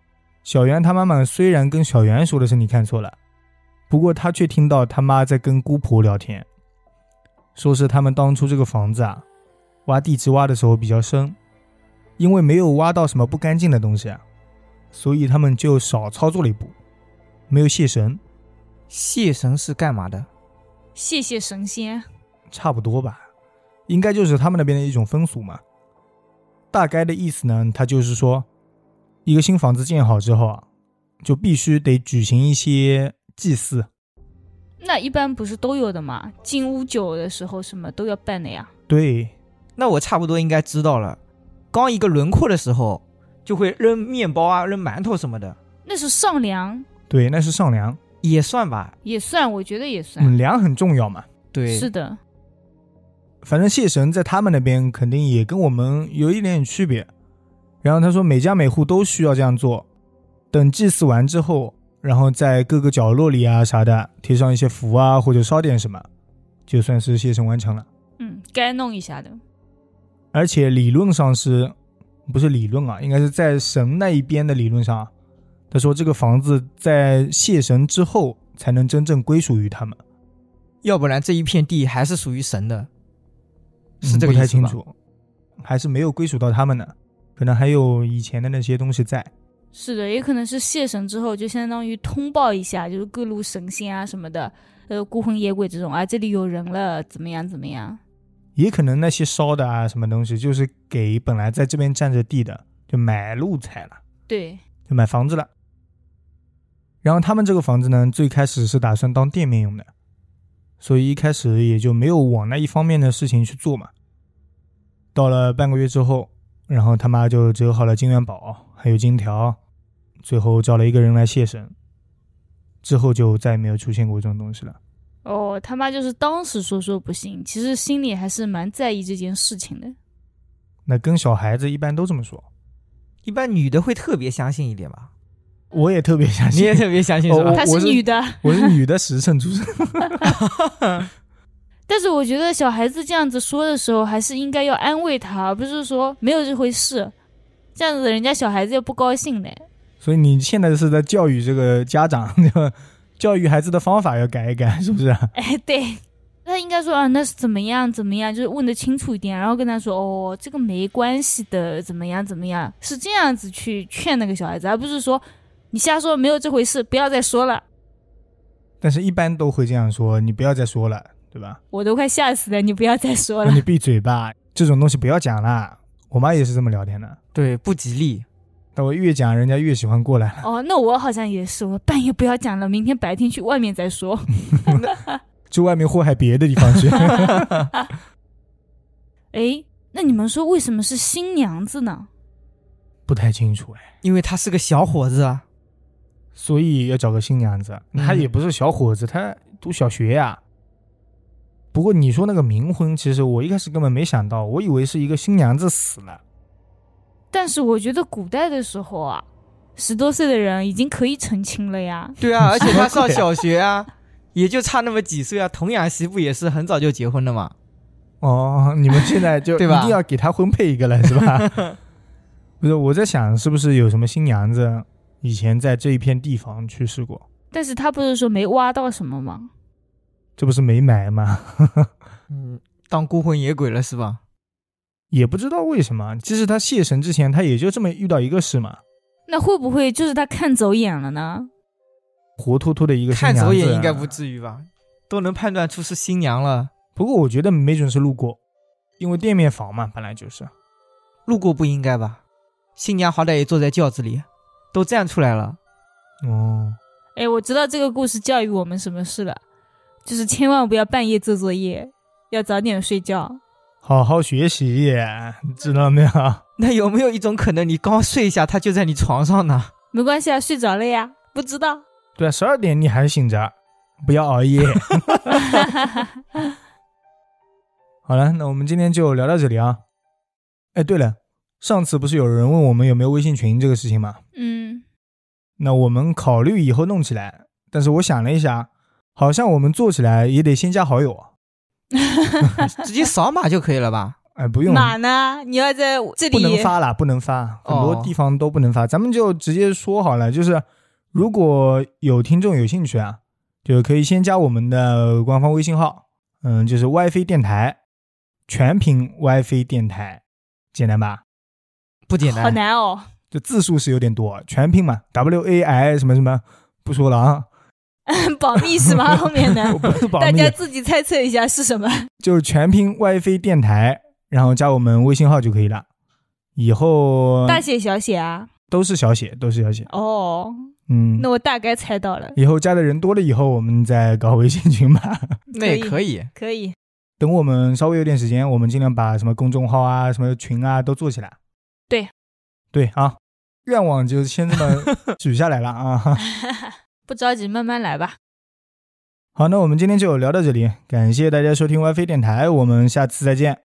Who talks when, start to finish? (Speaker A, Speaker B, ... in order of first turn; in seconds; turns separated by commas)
Speaker A: 0.4-3.1, Speaker A: 3.9-6.5, Speaker A: 7.5-9.2, Speaker A: 9.8-11.4, Speaker A: 12.2-14.2, Speaker A: 14.9-16.7, Speaker A: 17.5-18.2, Speaker B: 18.9-20.3, Speaker C: 20.9-22.1, Speaker A: 22.5-23.2, Speaker A: 23.9-25.6, Speaker A: 26.7-28.5, Speaker A: 29.2-30.6, Speaker A: 31.2-33.9, Speaker C: 34.8-38.7, Speaker A: 38.9-39.3, Speaker B: 39.8-41.2, Speaker B: 41.7-45.6, Speaker C: 45.9-46.9, Speaker A: 47.1-48.0, Speaker B: 48.2-48.9, Speaker C: 49.0-50.3, Speaker A: 50.2-51.2, Speaker B: 51.5-51.9, Speaker C: 51.7-52.2, Speaker A: 53.4-57.1, Speaker A: 57.8-59.9, Speaker A: 60.5-66.0, Speaker A: 66.7-67.8, Speaker C: 68.2-69.4, Speaker A: 70.3-71.7, Speaker A: 72.3-75.1, Speaker A: 75.7-80.0, Speaker B: 80.8-82.9, Speaker B: 84.0-84.8, Speaker A: 84.0-84.9, Speaker A: 85.6-89.3, Speaker C: 89.7-98.0, Speaker A: 98.5-104.0, Speaker C: 104.3-104.6, Speaker A: 104.9-105.5, Speaker A: 107.0-109.9, Speaker A: 110.8-113.9, Speaker A: 115.1-119.6, Speaker A: 120.2-121.7, Speaker A: 122.8-124.8, Speaker C: 125.2-129.9, Speaker A: 130.8-132.4, Speaker B: 133.2-135.1, Speaker A: 135.7-140.2, Speaker B: 136.5-137.6, Speaker C: 137.5-138.7, Speaker B: 140.4-141.1, Speaker C: 141.9-147.1, Speaker C: 147.7-149.7, Speaker A: 150.0-155.3, Speaker C: 155.3-167.6, Speaker A: 168.8-171.6, Speaker C: 171.7-173.6, Speaker A: 173.4-177.2, Speaker B: 177.3-178.2, Speaker A: 178.8-180.4, Speaker C: 180.4-185.2, Speaker A: 185.5-187.7, Speaker C: 187.0-187.8, Speaker C: 189.3-192.1, Speaker A: 193.1-193.8, Speaker B: 194.0-195.4, Speaker A: 196.3-200.4, Speaker B: 197.9-198.3, Speaker A: 201.7-206.2, Speaker C: 207.3-212.7, Speaker B: 212.2-217.5, Speaker A: 212.4-213.2, Speaker A: 218.2-221.6, Speaker B: 219.6-220.0, Speaker B: 221.1-221.8, Speaker A: 222.6-227.2, Speaker C: 227.5-229.5, Speaker A: 230.4-231.9, Speaker B: 232.3-234.2, Speaker A: 235.1-238.8, Speaker C: 239.3-241.5, Speaker A: 242.4-244.2, Speaker B: 243.1-246.7, Speaker A: 246.9-248.4, Speaker A: 249.0-250.5, Speaker B: 251.2-252.2, Speaker B: 252.8-255.6, Speaker A: 256.2-256.8, Speaker C: 257.1-259.4, Speaker C: 260.0-263.4, Speaker A: 263.8-266.4, Speaker B: 266.6-269.7, Speaker C: 269.9-271.8, Speaker A: 272.1-275.4, Speaker C: 275.6-276.0, Speaker A: 278.1-279.8, Speaker A: 280.7-284.2, Speaker C: 284.3-284.8, Speaker A: 285.6-291.3, Speaker C: 291.9-292.7, Speaker B: 292.7-294.2, Speaker A: 294.3-295.0, Speaker C: 294.6-296.7, Speaker A: 296.3-307.8, Speaker B: 297.6-298.1, Speaker A: 308.5-310.2, Speaker A: 310.7-311.2, Speaker B: 312.1-312.6, Speaker C: 312.2-313.1, Speaker A: 313.3-317.5, Speaker C: 318.1-322.1, Speaker A: 318.9-320.6, Speaker A: 322.2-325.9, Speaker A: 326.6-327.6, Speaker C: 327.4-328.5, Speaker A: 328.7-329.9, Speaker C: 329.9-332.4, Speaker A: 330.9-331.3, Speaker A: 332.4-335.3, Speaker B: 335.5-336.3, Speaker C: 335.5-336.7, Speaker A: 337.2-341.4, Speaker A: 342.7-346.2, Speaker C: 346.3-348.2, Speaker A: 349.3-353.6